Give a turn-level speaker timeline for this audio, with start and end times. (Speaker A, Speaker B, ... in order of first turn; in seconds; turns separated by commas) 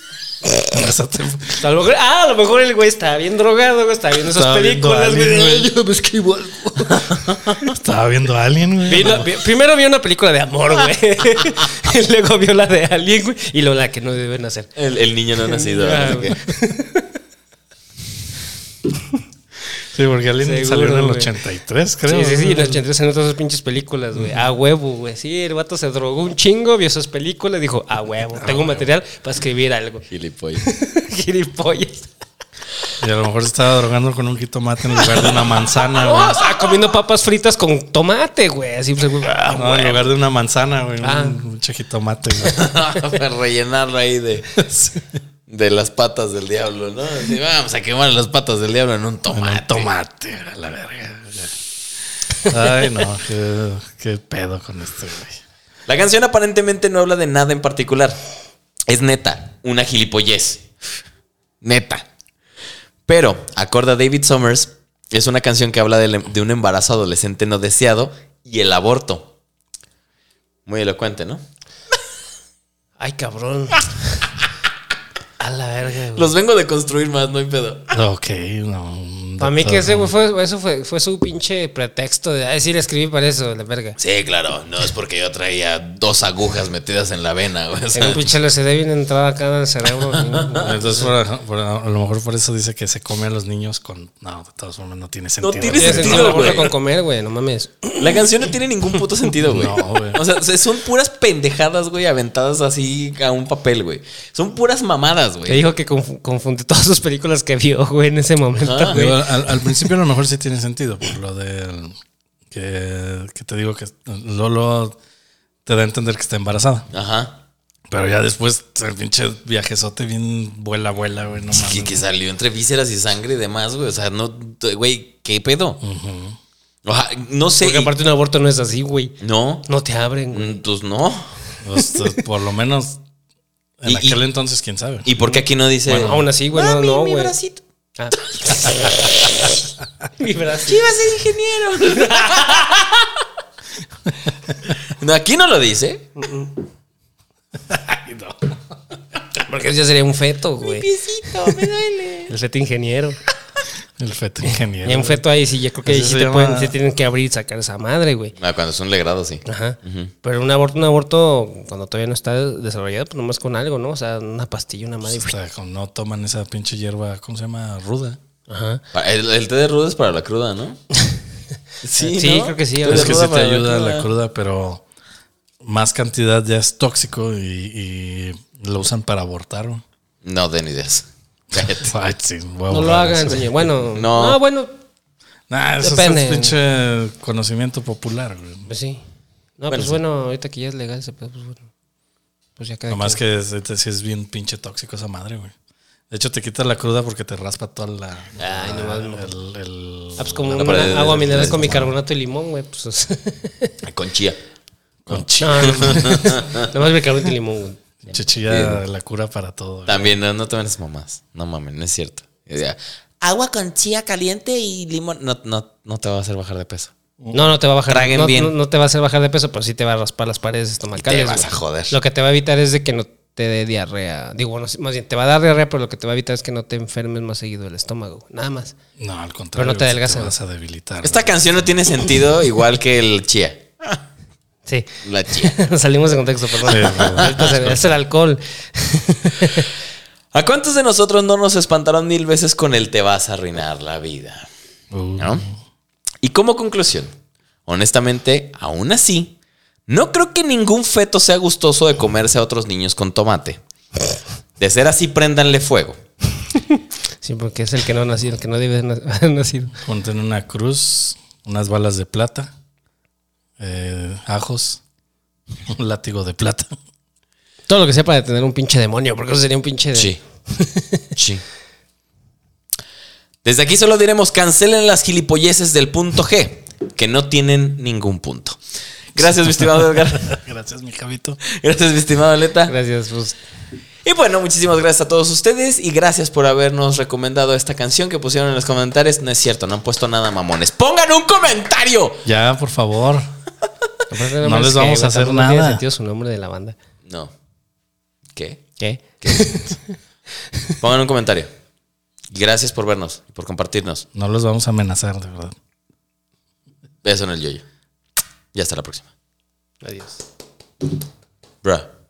Speaker A: 0.7-1.6, Speaker B: 1.6-7.2, Speaker A: 4.3-5.7, Speaker A: 6.4-9.3, Speaker B: 8.8-14.7, Speaker C: 14.8-16.4, Speaker B: 15.4-17.2, Speaker A: 19.9-22.8, Speaker B: 20.4-21.4, Speaker B: 22.1-30.0, Speaker A: 24.1-24.4, Speaker A: 28.4-28.9, Speaker C: 30.1-30.6, Speaker B: 30.6-32.1, Speaker A: 33.0-36.4, Speaker B: 35.8-40.1, Speaker A: 39.5-42.6, Speaker B: 41.0-41.4, Speaker C: 42.4-44.5, Speaker A: 44.5-45.0, Speaker C: 45.5-49.9, Speaker A: 49.3-51.5, Speaker A: 52.4-55.4, Speaker C: 55.9-58.2, Speaker C: 58.9-60.6, Speaker C: 61.6-62.0, Speaker C: 63.1-69.3, Speaker C: 70.7-71.4, Speaker B: 73.0-74.3, Speaker B: 75.4-76.3, Speaker C: 76.1-77.9, Speaker A: 77.9-80.2, Speaker B: 79.4-84.0, Speaker C: 84.0-88.3, Speaker B: 87.9-91.1, Speaker C: 90.1-90.7, Speaker A: 90.6-96.6, Speaker C: 95.4-96.7, Speaker B: 95.7-98.1, Speaker C: 98.0-105.6, Speaker A: 99.4-100.2, Speaker B: 105.5-109.9, Speaker C: 108.6-109.0, Speaker A: 108.9-111.9, Speaker A: 112.5-115.0, Speaker A: 115.7-116.9, Speaker C: 116.9-117.4, Speaker A: 117.9-122.0, Speaker C: 121.5-125.8, Speaker A: 125.8-126.4, Speaker C: 126.8-127.9, Speaker B: 127.6-130.6, Speaker C: 129.2-129.7, Speaker C: 130.3-131.3, Speaker A: 131.6-133.0, Speaker A: 133.8-135.2, Speaker C: 133.8-134.2, Speaker C: 135.1-137.6, Speaker A: 135.8-136.3, Speaker B: 135.9-137.4, Speaker B: 138.0-139.0, Speaker B: 140.2-140.9, Speaker C: 140.6-143.2, Speaker B: 141.9-142.7, Speaker C: 144.7-146.1, Speaker B: 146.2-146.5, Speaker A: 147.7-148.4, Speaker B: 149.3-151.6, Speaker C: 150.6-152.3, Speaker B: 152.3-153.2, Speaker A: 154.0-155.2, Speaker B: 154.8-158.3, Speaker A: 155.8-156.8, Speaker C: 158.4-160.1, Speaker B: 159.4-165.3, Speaker A: 165.1-168.2, Speaker B: 168.5-168.8, Speaker C: 168.9-170.8, Speaker C: 171.8-174.1, Speaker B: 172.0-173.2, Speaker A: 172.8-174.8, Speaker A: 175.6-179.8, Speaker C: 180.2-181.9, Speaker A: 181.8-183.7, Speaker B: 182.7-184.7, Speaker C: 183.9-184.4, Speaker A: 185.5-188.7, Speaker B: 185.8-186.6, Speaker B: 188.7-189.0, Speaker B: 189.6-191.7, Speaker C: 189.7-190.0, Speaker B: 192.6-193.2, Speaker A: 192.9-195.5, Speaker A: 196.1-201.9, Speaker B: 198.4-199.3, Speaker B: 200.2-203.7, Speaker C: 200.5-201.9, Speaker C: 203.8-204.4, Speaker A: 205.1-206.4, Speaker C: 205.1-206.7, Speaker B: 205.4-207.8, Speaker A: 208.0-210.1, Speaker C: 208.5-208.8, Speaker C: 209.9-216.9, Speaker A: 217.2-217.5, Speaker B: 217.3-228.7, Speaker C: 217.9-218.5, Speaker C: 220.9-221.9, Speaker A: 229.0-231.7, Speaker B: 229.6-230.3, Speaker C: 231.0-234.0, Speaker B: 234.7-239.7, Speaker C: 235.0-235.6, Speaker A: 236.7-237.4, Speaker C: 236.7-237.9, Speaker C: 240.3-244.5, Speaker A: 244.9-245.6, Speaker C: 245.2-245.4, Speaker C: 246.2-247.1, Speaker C: 247.7-249.3, Speaker C: 249.9-253.6, Speaker C: 254.6-256.0, Speaker B: 256.5-259.7, Speaker A: 259.8-262.5, Speaker A: 263.6-264.8, Speaker A: 265.7-266.7, Speaker B: 267.7-271.1, Speaker C: 271.1-271.4, Speaker C: 273.4-278.6, Speaker C: 279.1-280.4, Speaker A: 279.6-281.4, Speaker C: 281.5-282.7, Speaker B: 282.7-283.4, Speaker C: 284.0-292.2, Speaker A: 292.2-293.2, Speaker B: 294.1-296.8, Speaker A: 294.4-295.8, Speaker C: 298.3-298.6, Speaker B: 298.8-299.9, Speaker C: 299.2-299.7, Speaker C: 300.8-301.5, Speaker C: 302.3-304.0, Speaker A: 304.1-305.5, Speaker C: 307.0-307.6, Speaker C: 308.5-309.1, Speaker B: 309.8-310.2, Speaker C: 311.6-311.9